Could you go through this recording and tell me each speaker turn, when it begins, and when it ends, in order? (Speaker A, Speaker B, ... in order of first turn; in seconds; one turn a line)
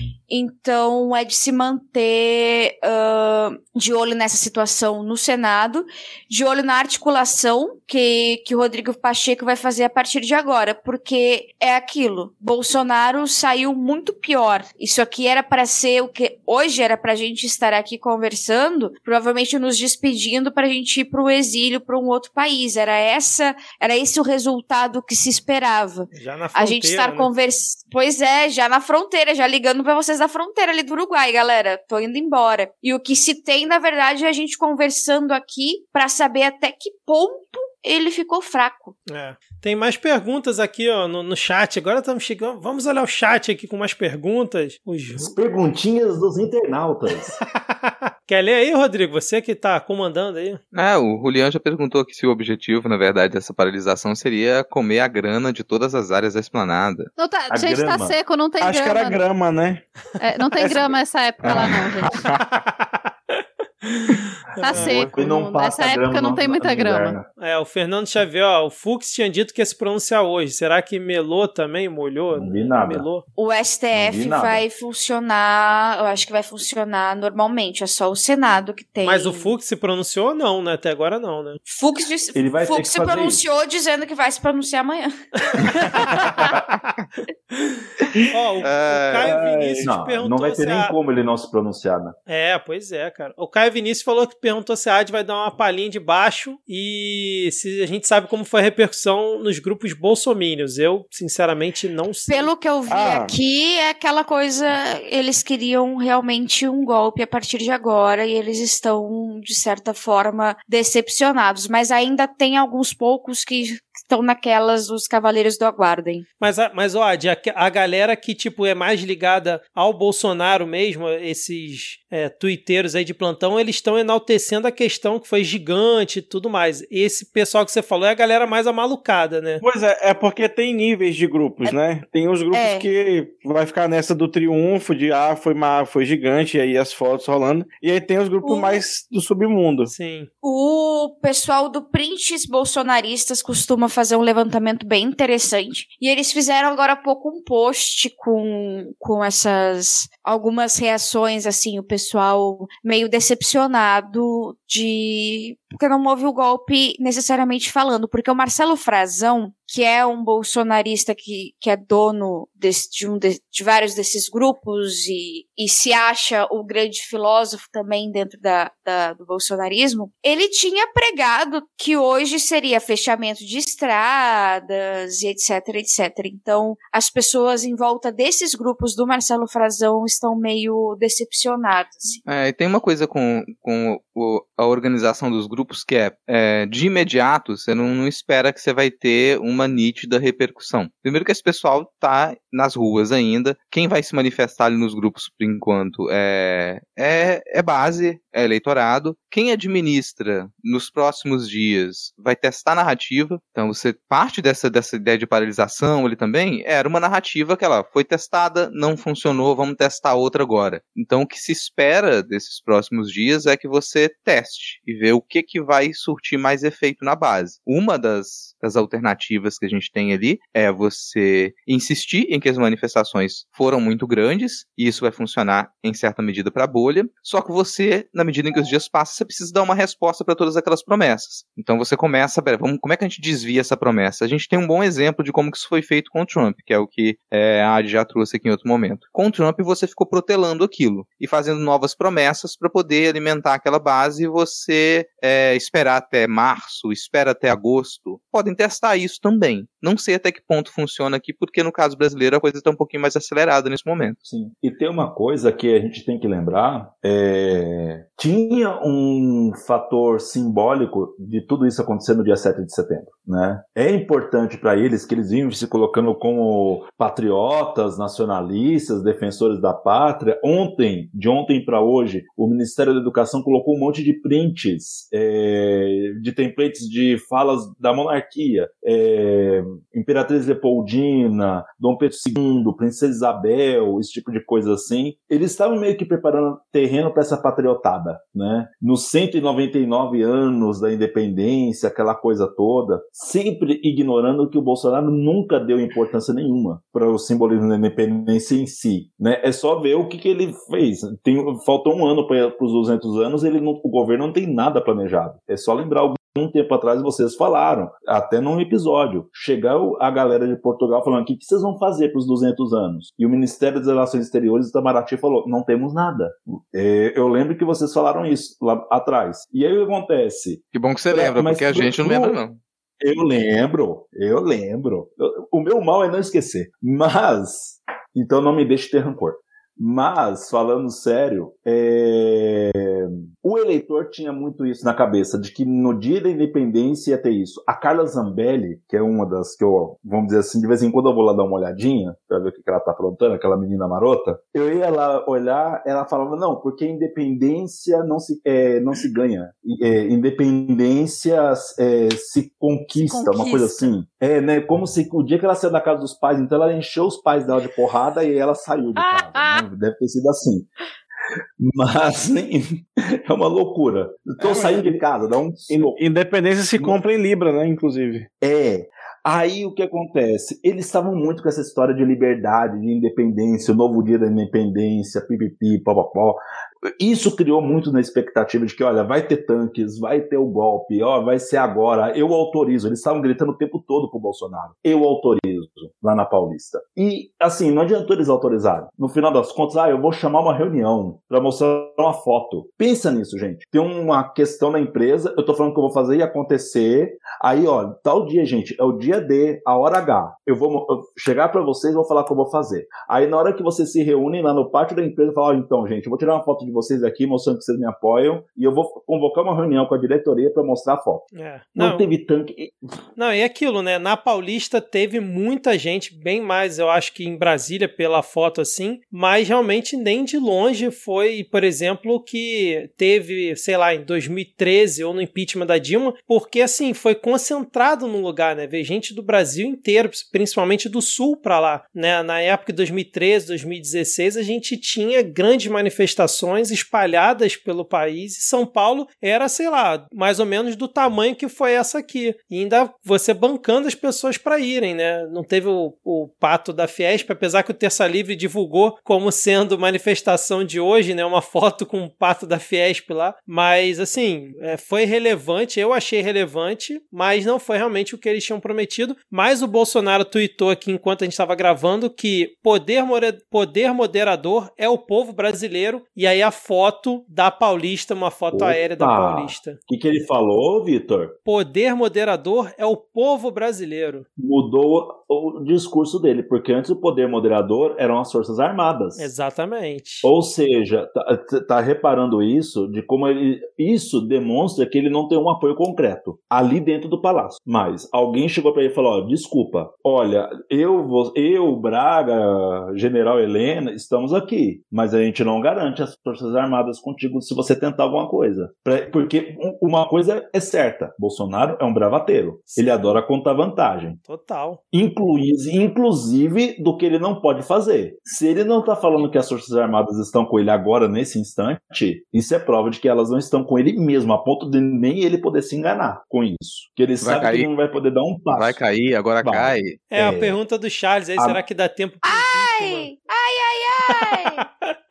Speaker A: 0.3-39.0
Speaker B: 26.1-27.3
Speaker B: 39.1-45.3
Speaker C: 45.2-47.4
Speaker B: 47.8-50.6
Speaker D: 50.7-57.1
Speaker E: 57.2-59.2
Speaker C: 57.5-58.2
Speaker F: 58.6-59.9
Speaker E: 60.2-62.2
Speaker F: 60.6-60.9
Speaker F: 61.5-62.4
Speaker B: 63.9-65.0
Speaker E: 64.6-67.2
Speaker C: 64.7-67.3
Speaker B: 67.4-73.2
Speaker C: 72.3-73.1
Speaker A: 73.4-79.5
Speaker C: 73.9-74.6
Speaker B: 79.0-81.6
Speaker A: 81.7-86.3
Speaker C: 82.3-83.4
Speaker C: 85.8-86.6
Speaker B: 88.3-90.9
Speaker D: 88.6-89.3
Speaker F: 89.2-89.9
Speaker C: 89.8-92.2
Speaker B: 92.3-102.5
Speaker A: 102.3-116.2
Speaker F: 102.9-103.4
Speaker B: 116.4-129.6
Speaker F: 129.6-139.9
Speaker A: 132.5-132.9
Speaker A: 138.4-138.8
Speaker B: 139.9-140.3
Speaker A: 140.4-182.2
Speaker D: 182.3-254.2
Speaker C: 254.2-322.4
Speaker D: 320.7-322.6
Speaker C: 323.0-360.7
Speaker E: 352.9-353.9
Speaker E: 359.0-359.6
Speaker C: 361.6-366.0
Speaker F: 364.4-364.9
Speaker F: 365.7-368.3
Speaker C: 368.4-411.2
Speaker B: 411.3-412.1
Speaker C: 411.8-412.8
Speaker B: 413.2-469.8
Speaker C: 468.5-471.4
Speaker B: 471.5-474.3
Speaker C: 474.4-479.3
Speaker B: 479.2-480.3
Speaker C: 480.2-504.2
Speaker B: 502.8-503.2
Speaker B: 504.3-504.8
Speaker C: 504.9-518.8
Speaker D: 517.2-517.7
Speaker D: 518.5-520.0
Speaker C: 519.4-520.6
Speaker B: 520.1-523.1
Speaker C: 521.4-521.6
Speaker A: 522.2-524.6